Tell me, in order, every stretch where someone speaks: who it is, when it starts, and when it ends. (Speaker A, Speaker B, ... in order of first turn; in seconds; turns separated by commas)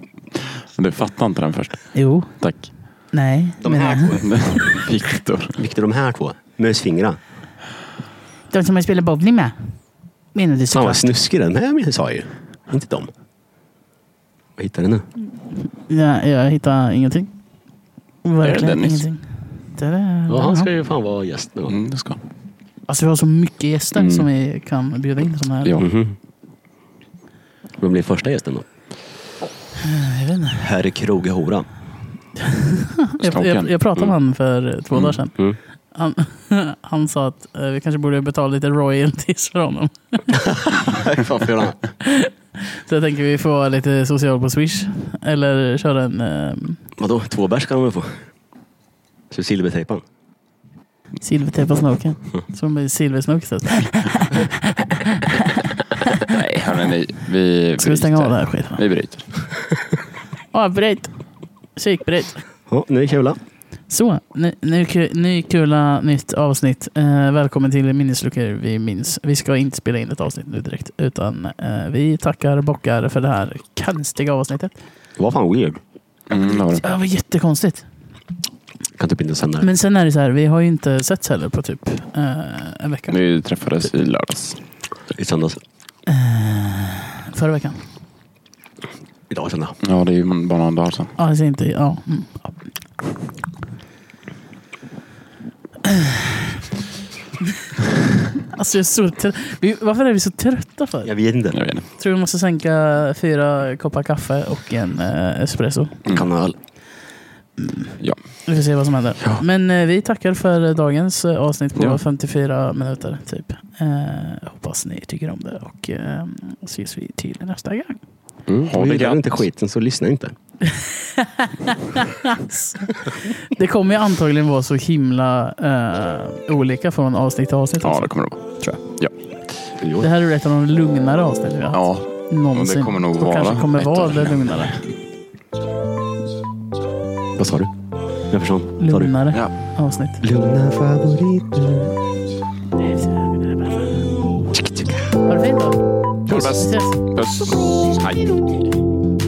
Speaker A: 0.7-2.7, Speaker B: 1.9-2.4, Speaker B: 3.1-4.2, Speaker C: 3.6-4.6, Speaker A: 4.2-5.6, Speaker C: 5.6-7.2, Speaker B: 8.5-9.8, Speaker B: 10.3-11.0, Speaker C: 10.7-13.1, Speaker C: 14.6-15.1, Speaker B: 15.6-17.3, Speaker B: 18.2-20.7, Speaker A: 18.4-19.0, Speaker C: 20.3-21.8, Speaker A: 21.7-22.2, Speaker B: 22.9-25.8, Speaker C: 23.9-24.3, Speaker C: 25.8-26.2, Speaker C: 27.8-28.7, Speaker B: 29.8-30.7, Speaker C: 30.6-31.7, Speaker B: 32.4-35.4, Speaker A: 33.2-33.7, Speaker B: 35.9-40.4, Speaker C: 40.3-41.8, Speaker B: 42.0-46.8, Speaker C: 47.0-48.3, Speaker C: 49.3-50.0, Speaker B: 51.2-56.4, Speaker A: 56.2-59.3, Speaker B: 57.8-58.8, Speaker B: 60.5-61.1, Speaker B: 61.8-62.4, Speaker C: 62.7-63.4, Speaker B: 63.9-74.7, Speaker C: 75.2-75.8, Speaker A: 76.3-76.8, Speaker B: 76.7-77.9, Speaker C: 79.0-79.7, Speaker B: 79.6-83.2, Speaker A: 83.1-84.6, Speaker C: 85.1-85.6, Speaker B: 86.1-87.8, Speaker C: 89.3-89.8, Speaker A: 89.8-91.1, Speaker B: 91.2-92.6, Speaker B: 95.8-96.6, Speaker B: 98.5-101.1, Speaker C: 101.0-101.6, Speaker A: 101.5-101.9, Speaker B: 102.0-106.0, Speaker C: 106.1-106.6, Speaker B: 107.6-118.0, Speaker C: 118.5-120.3, Speaker A: 118.7-119.4, Speaker B: 120.7-128.8, Speaker A: 127.8-129.1, Speaker C: 129.8-130.1, Speaker B: 130.0-134.8, Speaker A: 131.7-134.7, Speaker C: 137.4-137.7, Speaker C: 138.3-139.1, Speaker B: 138.8-140.2, Speaker C: 140.2-142.0, Speaker B: 142.8-144.0, Speaker C: 144.5-145.2, Speaker B: 145.3-147.0, Speaker A: 146.3-148.6